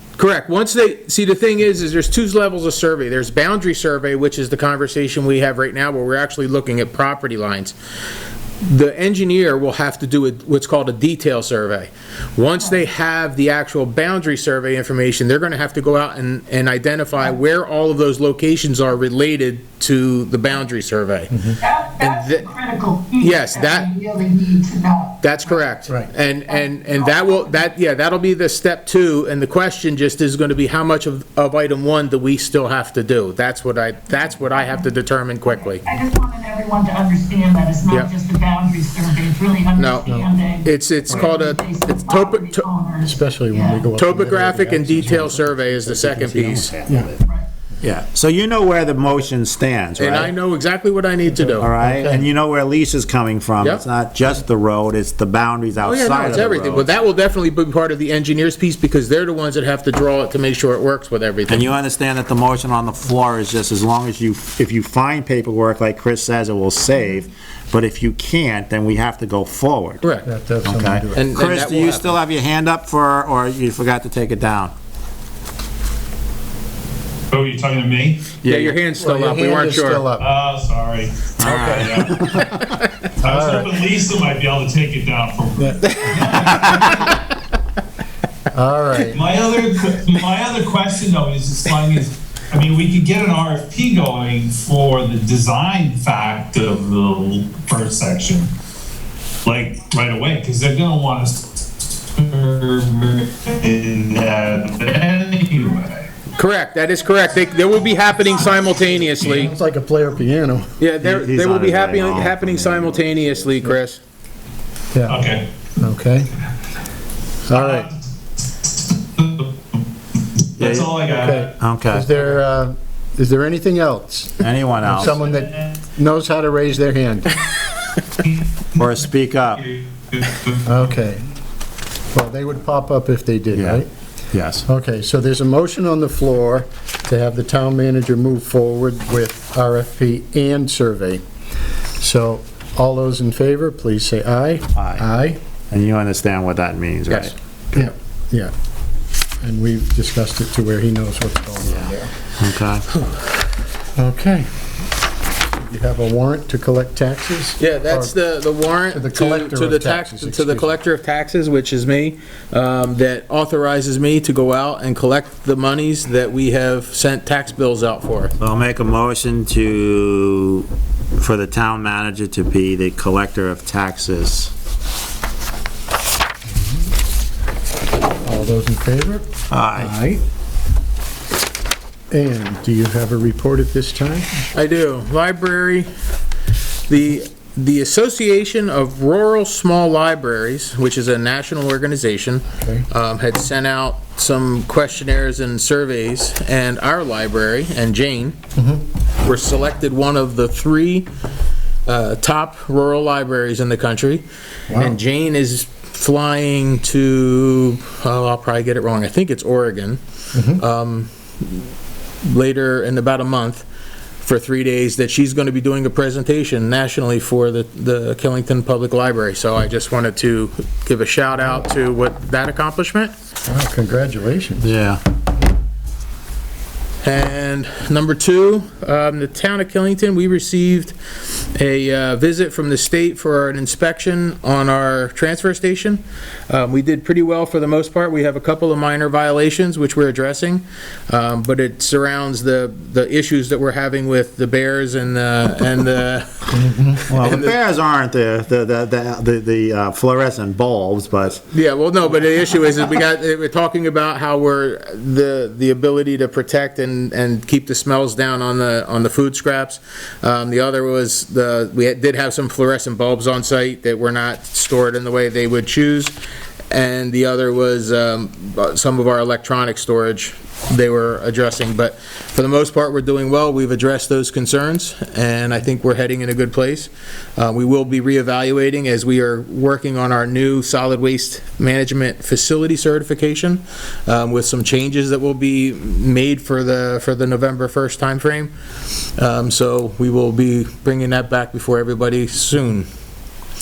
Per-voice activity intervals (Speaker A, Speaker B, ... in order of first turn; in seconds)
Speaker A: 0.2-7.8, 8.6-22.5, 23.2-23.9, 25.2-35.8, 39.8-42.7, 43.9-46.7, 50.0-51.7, 55.8-61.7, 70.0-70.3, 71.1-72.2, 78.4-80.0, 106.3-109.5, 110.8-114.0, 157.6-168.3, 184.5-185.9, 186.9-198.4, 199.2-201.1, 201.8-210.0, 210.5-211.7, 212.2-213.6, 214.2-223.1, 227.0-247.6, 251.5-266.1, 266.7-288.5, 289.2-292.9
Speaker B: 21.6-25.7, 26.4-27.7, 35.4-43.9
Speaker C: 43.0-47.1, 51.3-52.2, 70.2-71.2, 79.0-80.3, 83.2-83.7, 85.6-87.0, 88.5-89.2, 109.2-110.7, 114.9-115.2, 115.8-116.3, 117.5-117.9, 121.1-127.3, 130.6-131.2, 132.1-133.9, 134.6-141.2, 142.0-145.4, 147.7-148.5, 149.4-152.1, 153.9-154.5, 155.5-158.2, 158.9-160.7, 176.5-176.8, 178.2-180.2, 182.1-184.5, 198.6-198.8, 204.7-205.0, 210.3-210.6, 223.5-224.7, 246.5-247.0
Speaker D: 46.1-47.2, 47.8-50.3, 51.6-56.9, 61.5-70.0, 70.6-74.7, 78.4-78.8, 81.4-82.6, 111.0-113.0, 120.6-121.0, 121.5-122.1, 124.4-125.2, 128.8-129.7, 133.5-134.6, 144.8-145.0, 145.7-147.3, 151.7-152.8, 168.4-174.5, 179.5-179.9, 224.6-225.0, 247.1-251.4
Speaker E: 77.3-78.3, 80.2-82.2, 83.2-87.1, 89.1-98.5, 99.4-106.0, 115.1-115.5, 117.5-117.9, 119.2-119.5, 120.6-121.5, 129.6-130.6